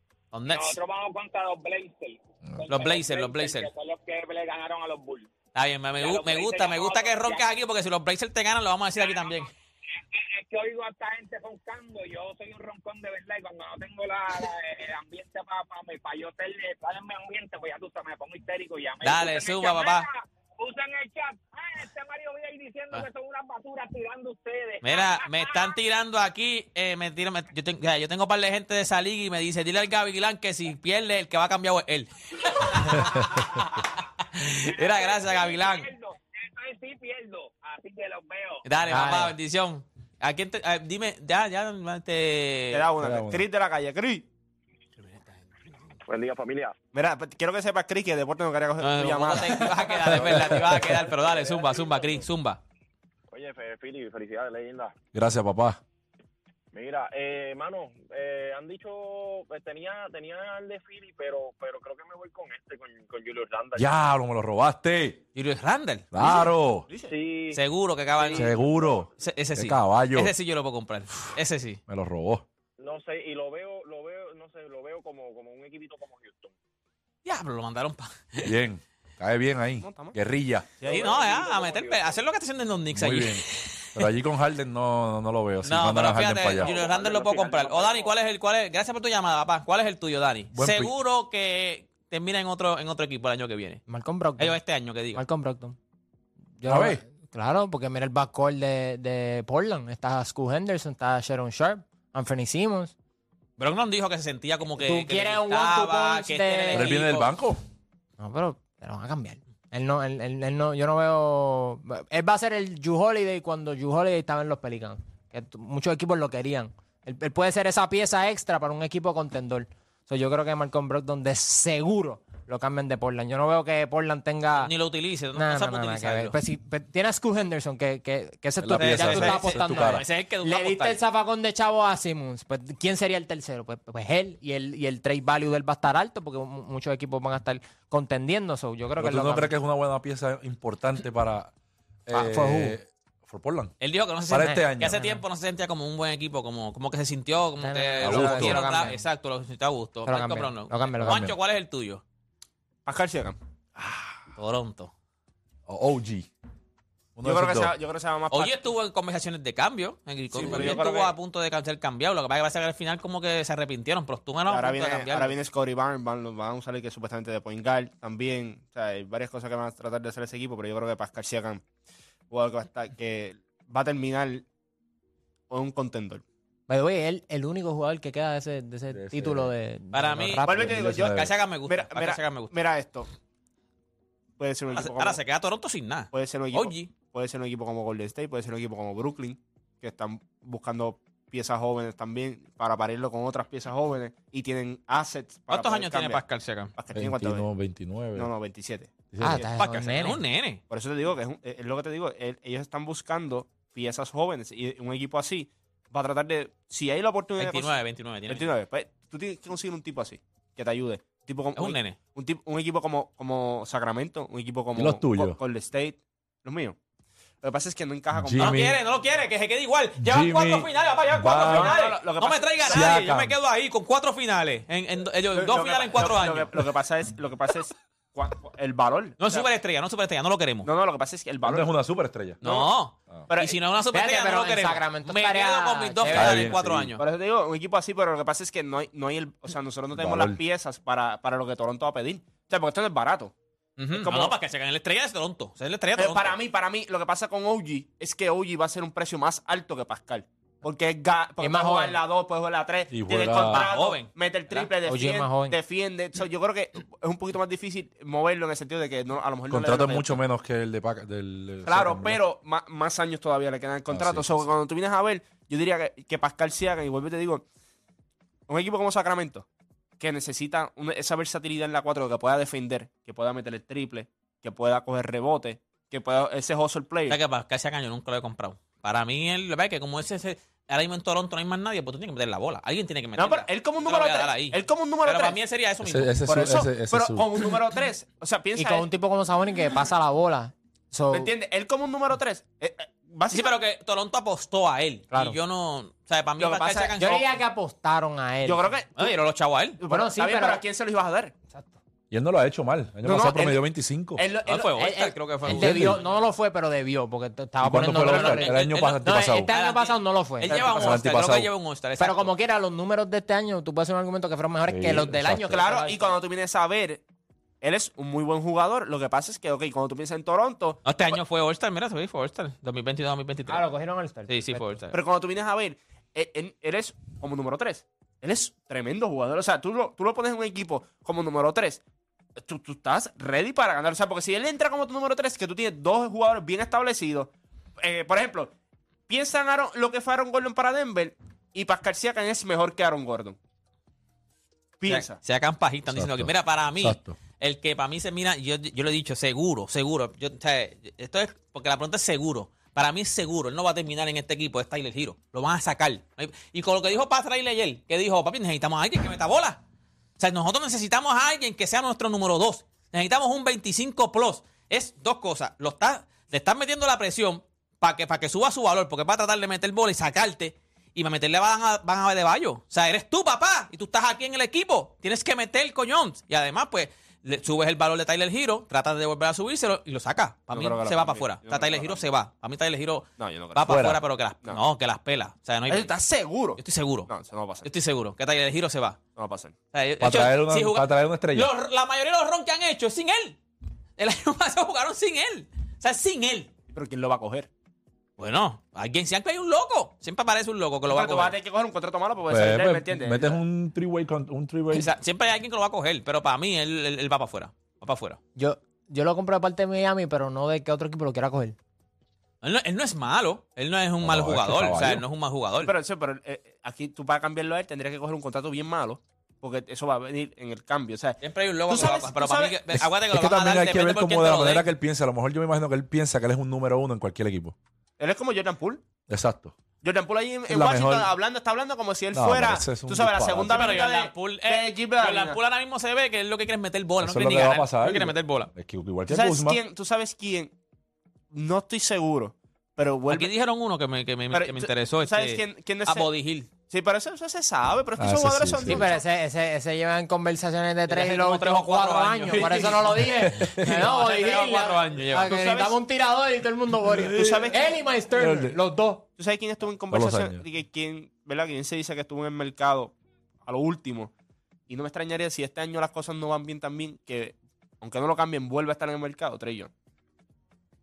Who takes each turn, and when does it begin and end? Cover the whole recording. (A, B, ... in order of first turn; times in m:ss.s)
0:00.3-0:00.8 A
0:00.5-0:05.3 B
0:02.7-0:03.7 A
0:05.5-0:09.5 A
0:06.0-0:07.5 B
0:09.0-0:25.8 B
0:19.0-0:20.0 A
0:24.8-0:33.4 A
0:32.5-0:33.9 B
0:34.2-0:35.9 A
0:34.6-0:38.6 B
0:38.6-0:42.9 A
0:38.9-0:39.3 C
0:42.7-0:44.2 D
0:43.0-0:43.4 E
0:45.0-0:45.9 A
0:46.0-0:46.8 F
0:46.9-0:50.6 D
0:48.8-0:52.6 A
0:50.3-0:52.2 F
0:53.3-0:55.0 F
0:55.1-0:55.8 E
0:56.7-1:03.9 F
1:03.7-1:05.2 E
1:05.3-1:06.2 A
1:06.1-1:06.9 E
1:07.0-1:07.6 F
1:07.5-1:11.8 A
1:08.2-1:09.0 F
1:08.3-1:10.3 E
1:11.9-1:12.4 E
1:12.8-1:16.5 F
1:17.2-1:18.5 A
1:18.4-1:20.7 E
1:19.8-1:20.2 D
1:20.8-1:21.3 D
1:20.9-1:24.0 A
1:20.9-1:22.2 F
1:22.9-1:26.7 E
1:25.6-1:33.8 A
1:26.8-1:27.8 D
1:26.9-1:27.5 B
1:30.5-1:30.9 E
1:33.9-1:34.6 C
1:34.4-1:35.2 A
1:35.1-1:35.8 C
1:36.6-1:42.9 C
1:36.6-1:37.0 E
1:43.6-1:47.3 A
1:44.8-1:46.9 C
1:46.7-1:47.6 E
1:48.2-2:04.7 C
2:04.6-2:06.4 A
2:05.4-2:19.5 C
2:08.6-2:10.0 E
2:08.8-2:11.0 A
2:19.0-2:21.5 E
2:22.1-2:23.7 E
2:22.1-2:22.8 C
2:23.8-2:32.0 A
2:24.2-2:25.0 E
2:24.4-2:25.2 C
2:27.6-2:29.0 C
2:28.0-2:28.7 E
2:30.0-2:31.3 C
2:31.0-2:31.4 E
2:32.8-2:33.4 D
2:33.8-2:34.2 E
2:34.4-2:34.9 A
2:35.7-2:36.3 E
2:37.2-2:37.7 E
2:37.2-2:38.7 D
2:38.3-2:45.4 A
2:40.3-2:41.1 D
2:40.4-2:40.8 E
2:44.5-2:51.6 D
2:52.3-2:54.4 D
2:55.5-2:56.2 D
2:56.7-3:00.9 C
2:58.9-2:59.5 E
2:59.9-3:02.5 A
3:00.4-3:03.1 D
3:00.6-3:01.3 E
3:04.4-3:05.2 D
3:04.7-3:06.9 A
3:06.1-3:16.2 D
3:15.5-3:16.7 A
3:16.8-3:17.5 D
3:16.9-3:18.3 E
3:18.1-3:19.4 D
3:19.1-3:19.4 E
3:19.2-3:20.2 C
3:19.6-3:20.6 A
3:20.7-3:27.7 D
3:27.4-3:28.5 A
3:28.3-3:36.8 D
3:31.6-3:32.0 A
3:34.7-3:35.4 E
3:37.4-3:38.7 D
3:38.1-3:38.8 E
3:38.4-3:46.7 A
3:40.0-3:41.7 E
3:41.4-3:43.0 D
3:42.6-3:43.4 E
3:45.3-3:49.5 D
3:49.2-3:50.7 A
3:50.6-3:51.7 D
3:51.4-3:52.4 E
3:52.4-3:52.7 D
3:52.4-3:57.0 A
3:53.3-3:53.6 D
3:53.9-3:56.5 C
3:56.1-3:56.9 E
3:57.0-4:03.3 D
3:59.9-4:00.4 E
4:03.8-4:06.4 A
4:03.9-4:04.3 D
4:06.0-4:20.2 D
4:11.4-4:12.0 C
4:12.9-4:13.6 E
4:13.5-4:14.7 A
4:14.8-4:15.6 C
4:19.5-4:22.2 E
4:21.6-4:27.4 D
4:23.9-4:24.5 E
4:28.5-4:29.4 D
4:30.0-4:37.2 D
4:37.1-4:46.1 A
4:43.2-4:45.4 D
4:45.8-4:47.6 E
4:46.2-4:48.9 D
4:48.6-4:51.3 C
4:51.1-4:53.5 D
4:53.3-4:57.2 A
4:56.4-4:56.9 D
4:57.0-4:58.7 C
4:58.4-4:59.2 D
4:59.0-4:59.8 A
4:59.8-5:01.3 D
4:59.9-5:00.6 C
5:02.1-5:04.2 E
5:03.0-5:03.6 D
5:04.2-5:05.0 D
5:04.4-5:06.0 A
5:04.7-5:10.5 C
5:05.4-5:06.0 E
5:07.6-5:09.5 E
5:08.0-5:12.3 A
5:10.5-5:11.0 D
5:10.5-5:11.5 E
5:12.0-5:16.0 C
5:14.7-5:15.6 E
5:15.5-5:17.0 D
5:17.6-5:21.1 D
5:20.8-5:23.6 A
5:23.5-5:24.7 C
5:24.3-5:25.0 A
5:24.9-5:31.8 D
5:32.4-5:38.5 D
5:39.1-5:43.4 D
5:44.8-5:45.2 D
5:44.9-5:59.6 A
5:45.9-5:47.2 E
6:00.2-6:25.9 A
6:20.5-6:22.0 D
6:23.2-6:23.8 D
6:23.6-6:24.0 E
6:25.7-6:27.7 D
6:26.6-6:27.1 A
6:27.6-6:29.0 A
6:29.2-6:29.6 D
6:29.7-6:33.4 A
6:30.0-6:31.5 E
6:34.0-6:36.5 A
6:36.7-6:37.5 D
6:38.2-6:41.3 A
6:40.9-6:43.4 D
6:42.3-6:44.9 E
6:44.7-6:48.2 A
6:48.4-6:51.6 C
6:52.4-6:55.7 A
6:54.0-6:55.0 E
6:55.6-7:02.6 D
7:01.2-7:04.7 A
7:02.8-7:07.5 E
7:08.0-7:08.8 D
7:09.1-7:09.6 E
7:09.8-7:15.4 D
7:10.5-7:11.1 E
7:12.1-7:13.8 E
7:13.5-7:18.5 A
7:17.0-7:19.6 E
7:19.1-7:20.5 D
7:21.3-7:23.3 D
7:23.1-7:26.5 A
7:24.3-7:26.1 D
7:26.6-7:29.0 D
7:28.0-7:28.8 E
7:28.6-7:39.0 C
7:30.9-7:35.3 A
7:32.3-7:32.7 D
7:33.2-7:33.7 E
7:34.0-7:35.8 D
7:36.9-7:37.5 E
7:37.0-7:37.8 D
7:38.1-7:38.6 E
7:39.2-7:44.1 D
7:39.9-7:40.4 E
7:44.7-7:49.7 D